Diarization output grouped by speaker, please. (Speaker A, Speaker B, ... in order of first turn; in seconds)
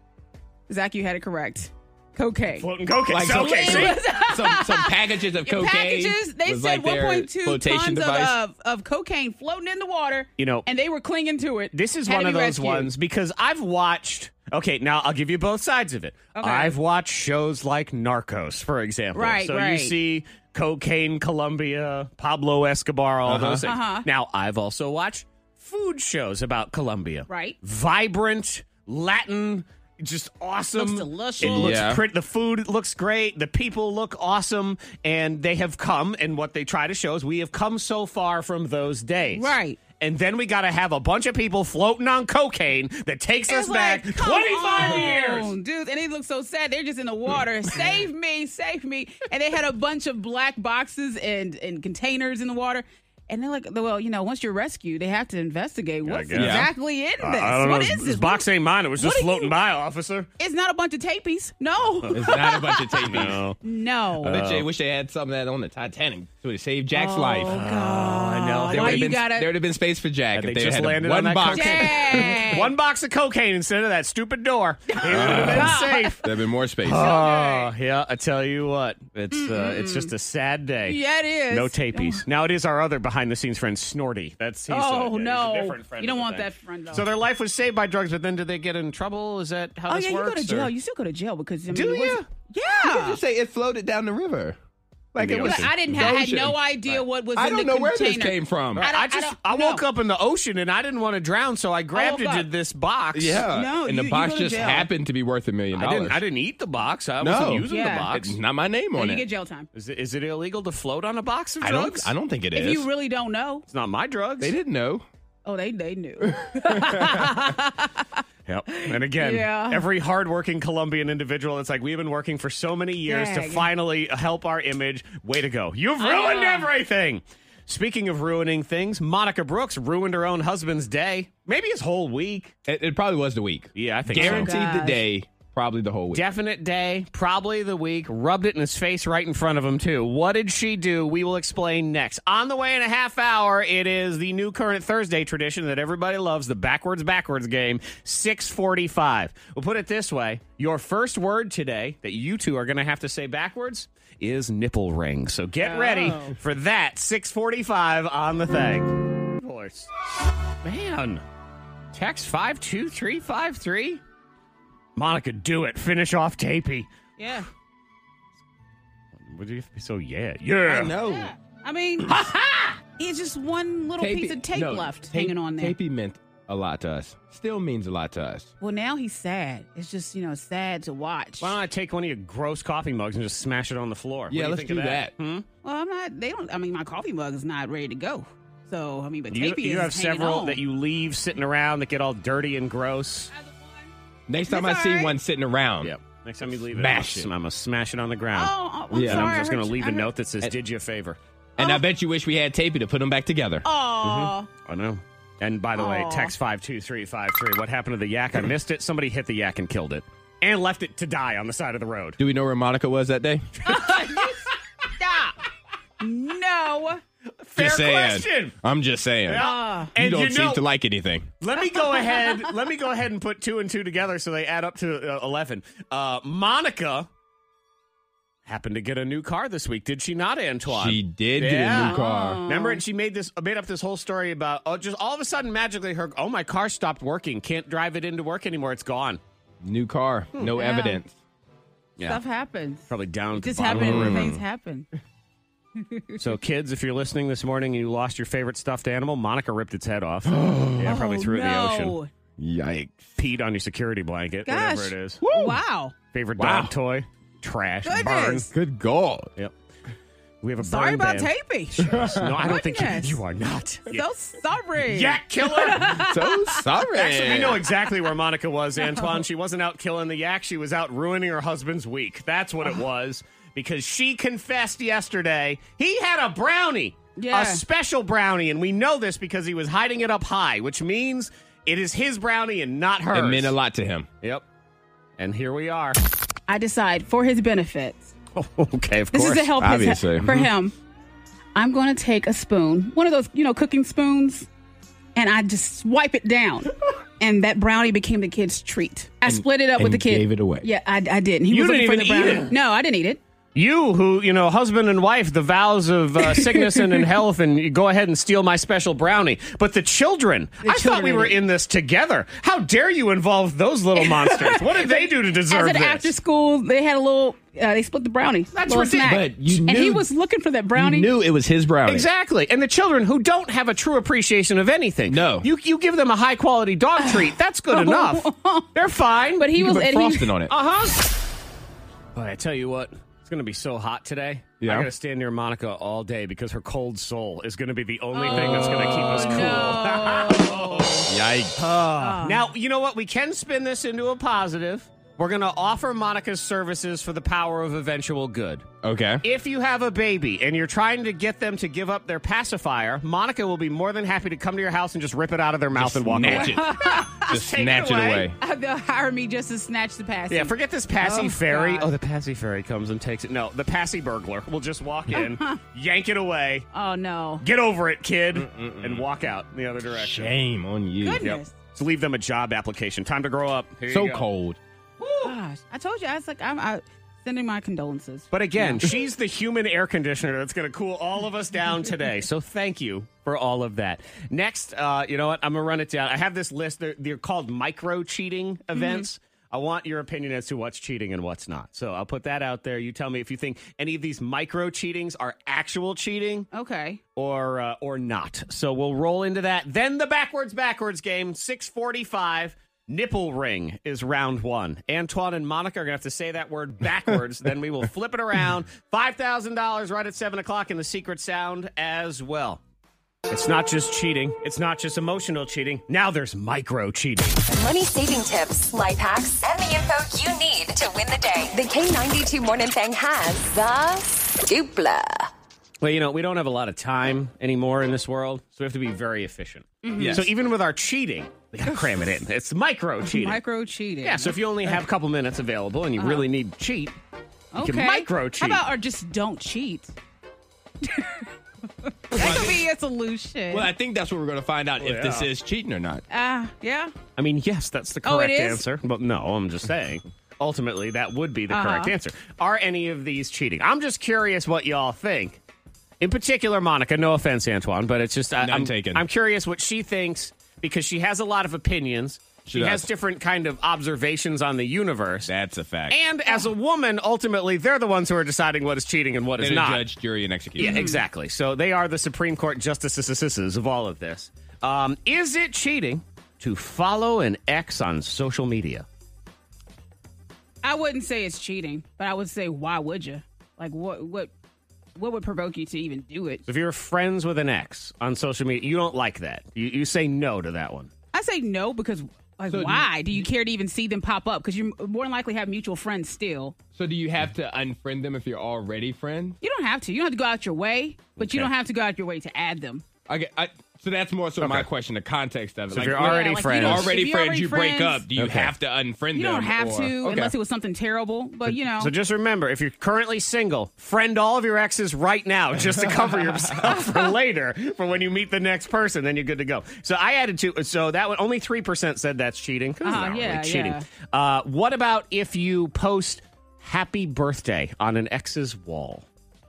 Speaker A: 0.7-2.7, 3.3-12.9, 16.4-16.8, 19.1-19.9, 23.7-24.1, 27.3-27.6, 30.8-31.8, 39.3-39.8, 43.5-58.5, 59.0-59.5, 60.4-64.4, 66.9-69.5, 71.5-72.7, 74.9-76.2, 76.9-77.7, 79.3-80.1, 80.9-82.2, 84.7-87.1, 89.9-93.2, 95.4-99.8, 102.0-102.5, 103.5-104.9, 107.7-108.1, 109.0-109.7, 112.5-113.6, 115.5-119.9, 123.1-123.7, 126.0-126.7, 134.1-135.0, 155.6-156.4, 167.2-167.5, 170.9-172.1, 173.0-175.8, 178.6-181.6, 185.6-190.6, 193.3-193.9, 194.5-195.2, 198.3-200.1, 203.7-204.5, 205.8-206.3, 213.7-214.5, 215.0-215.3, 216.0-217.0, 219.4-219.9, 221.7-222.4, 231.8-232.8, 240.5-241.0, 242.0-244.9, 245.8-246.2, 250.8-252.1, 254.5-255.9, 257.9-258.5, 260.6-263.2, 263.9-266.7, 277.2-277.6, 286.5-288.1, 289.1-290.8, 291.6-294.5, 295.2-303.2, 306.2-307.1, 310.6-311.4, 314.0-321.1, 327.0-328.7, 329.4-330.3, 338.1-341.1, 342.0-342.4, 356.2-357.4, 358.4-361.9, 365.1-365.6, 366.7-367.4, 371.0-371.5, 375.0-378.9, 388.8-389.1, 396.5-397.0, 429.8-430.3, 433.0-434.4, 436.0-436.3, 437.5-439.9, 440.8-441.3, 441.8-443.7, 446.1-446.9, 448.1-448.6, 451.5-451.9, 470.6-471.0, 480.6-484.3, 485.0-486.4, 491.1-496.6, 499.4-502.8, 505.8-508.0, 509.1-511.9, 522.8-523.9
Speaker B: 2.5-4.0, 10.4-10.7, 11.7-45.5, 56.0-60.3, 63.0-63.6, 64.2-64.7, 67.5-69.2, 70.3-76.3, 76.8-81.0, 81.5-90.7, 91.8-92.2, 95.2-95.9, 98.8-103.5, 105.7-108.4, 109.8-112.1, 113.7-114.5, 118.5-132.6, 133.8-134.5, 136.1-159.9, 160.6-161.2, 161.9-164.0, 165.0-166.9, 169.2-171.0, 181.4-185.5, 189.3-193.3, 195.8-201.2, 204.0-212.2, 213.8-214.4, 217.4-218.6, 219.3-220.7, 221.4-227.1, 228.5-239.2, 242.9-244.3, 246.2-252.0, 253.2-255.2, 256.1-258.5, 260.4-264.1, 264.8-266.0, 266.9-283.6, 285.2-286.0, 288.4-289.5, 301.5-302.5, 303.6-316.1, 318.5-319.1, 321.9-329.6, 330.5-331.1, 332.1-348.7, 349.2-358.3, 360.3-366.7, 367.4-370.4, 371.2-374.3, 378.3-396.5, 397.2-412.6, 413.3-417.4, 425.8-433.4, 434.0-436.9, 437.6-438.6, 444.8-445.3, 447.2-455.4, 456.0-465.3, 465.9-469.8, 470.6-478.9, 486.5-490.9, 501.2-501.5, 504.4-504.7, 505.7-506.9, 508.2-508.5, 511.8-529.1
Speaker C: 3.1-8.4, 23.3-23.6, 31.4-32.0, 56.3-56.7, 62.1-63.4, 64.2-67.6, 68.7-72.3, 75.1-77.2, 91.7-92.2, 92.8-94.6, 95.1-96.6, 97.3-98.9, 103.1-106.2, 107.2-109.2, 111.6-112.9, 114.4-115.1, 116.2-117.1, 132.7-136.3, 170.7-171.3, 172.1-172.4, 174.0-178.5, 184.3-185.1, 194.3-195.9, 196.6-197.3, 198.9-199.3, 201.6-203.7, 212.2-213.6, 217.6-221.3, 230.7-232.4, 239.6-241.1, 243.7-244.4, 250.3-251.0, 252.4-253.2, 255.2-255.6, 256.4-256.7, 258.5-259.3, 261.9-262.3, 265.8-267.7, 283.1-284.1, 289.6-290.3, 299.2-300.7, 318.7-320.1, 320.8-322.1, 325.1-325.5, 329.5-330.5, 334.6-334.9, 338.3-339.8, 341.1-341.6, 348.8-349.2, 355.7-358.4, 368.3-369.1, 369.9-371.3, 373.9-374.6, 430.0-430.3, 442.1-442.6, 443.5-446.0, 458.4-459.1, 462.5-462.9, 465.3-466.0, 469.4-470.9, 492.5-493.3, 496.8-499.4, 503.1-510.4, 515.8-516.6
Speaker D: 417.5-425.3